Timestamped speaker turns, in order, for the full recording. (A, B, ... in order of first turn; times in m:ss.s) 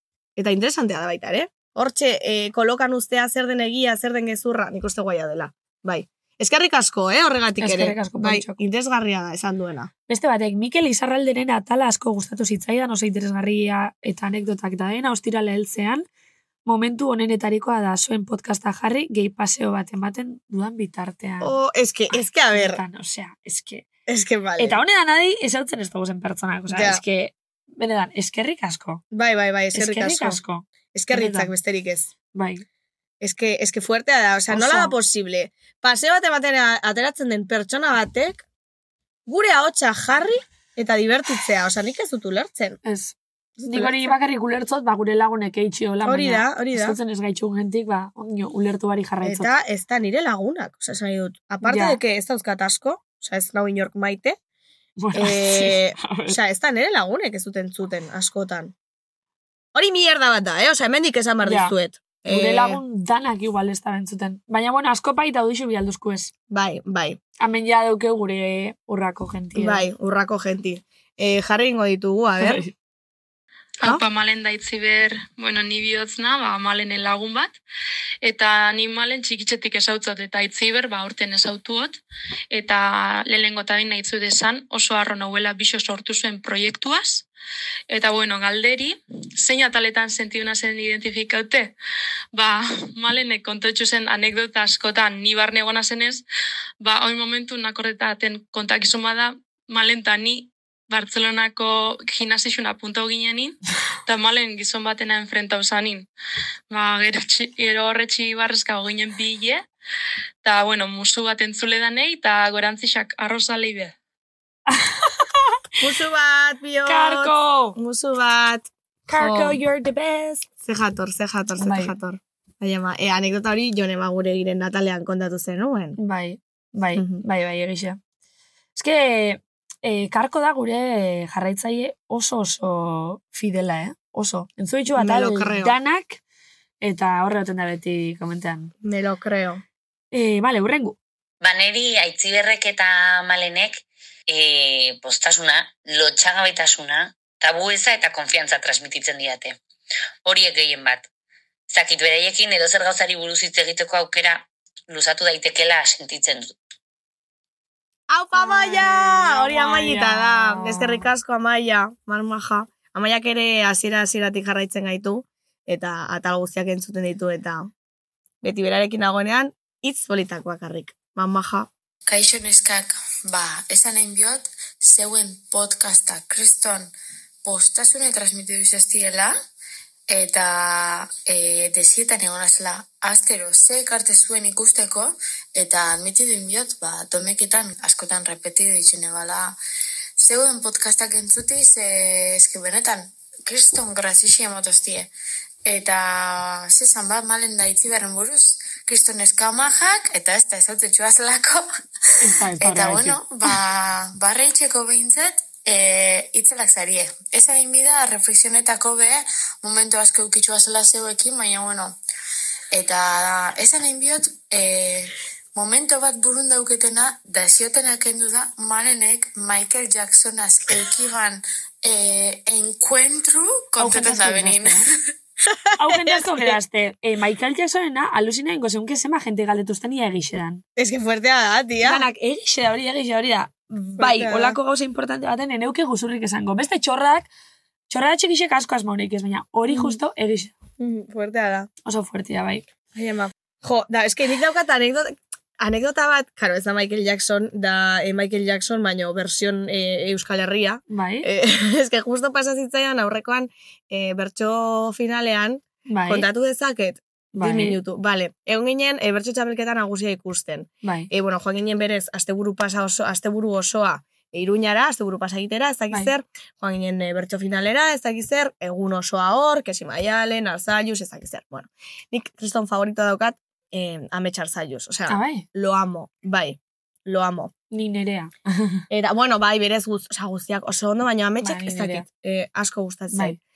0:00.4-0:09.9 A
0:07.6-0:08.6 B
0:10.1-0:16.1 B
0:16.7-0:21.5 B
0:21.4-0:22.8 A
0:22.1-0:23.9 B
0:24.1-0:24.8 A
0:24.6-0:29.0 B
0:26.7-0:27.0 A
0:29.1-0:30.4 A
0:29.7-0:31.5 B
0:30.9-0:32.1 A
0:32.3-0:32.6 B
0:33.2-0:38.4 A
0:34.5-0:35.0 B
0:39.3-0:42.8 A
0:42.8-0:49.5 B
0:43.6-0:44.2 A
0:46.0-0:47.0 A
0:49.2-0:54.4 A
0:51.6-0:52.0 B
0:55.0-0:56.4 B
0:55.1-0:58.7 A
0:59.8-1:02.8 A
1:01.4-1:01.8 B
1:02.3-1:06.3 B
1:06.5-1:07.2 A
1:07.4-1:09.8 B
1:09.6-1:12.6 A
1:12.4-1:12.7 B
1:13.8-1:17.6 C
1:18.2-1:22.0 C
1:22.5-1:27.3 C
1:27.9-1:31.8 C
1:32.3-1:36.2 C
1:36.8-1:46.1 C
1:46.7-1:49.6 C
1:50.4-1:54.0 C
1:54.7-1:55.2 B
1:55.8-1:59.6 A
1:56.8-1:57.8 B
1:59.1-2:00.5 B
2:00.6-2:06.0 A
2:01.6-2:02.0 B
2:06.0-2:08.0 B
2:07.0-2:07.2 A
2:08.8-2:16.2 B
2:15.0-2:15.8 A
2:16.8-2:18.7 B
2:18.8-2:19.6 A
2:20.1-2:21.0 B
2:21.4-2:29.6 D
2:30.2-2:31.1 D
2:31.7-2:36.5 D
2:38.1-2:47.7 A
2:38.4-2:41.1 B
2:48.4-2:51.7 A
2:52.1-2:56.9 E
2:57.4-2:59.4 E
3:00.1-3:09.6 E
3:10.2-3:15.1 E
3:15.6-3:21.7 E
3:22.2-3:23.2 B
3:22.6-3:32.0 E
3:32.7-3:44.9 E
3:43.8-3:44.9 B
3:45.5-3:46.6 A
3:45.8-3:50.6 B
3:50.8-3:52.0 A
3:51.8-3:57.3 B
3:54.0-3:54.6 A
3:57.9-4:00.6 B
3:59.7-4:00.0 A
4:00.8-4:01.7 A
4:01.8-4:02.7 B
4:02.9-4:37.5 A
4:10.9-4:11.3 B
4:15.9-4:16.3 B
4:17.4-4:17.8 B
4:20.8-4:21.1 B
4:35.1-4:35.5 B
4:37.7-4:38.8 B
4:38.9-4:43.4 A
4:41.4-4:42.1 B
4:43.1-4:43.4 B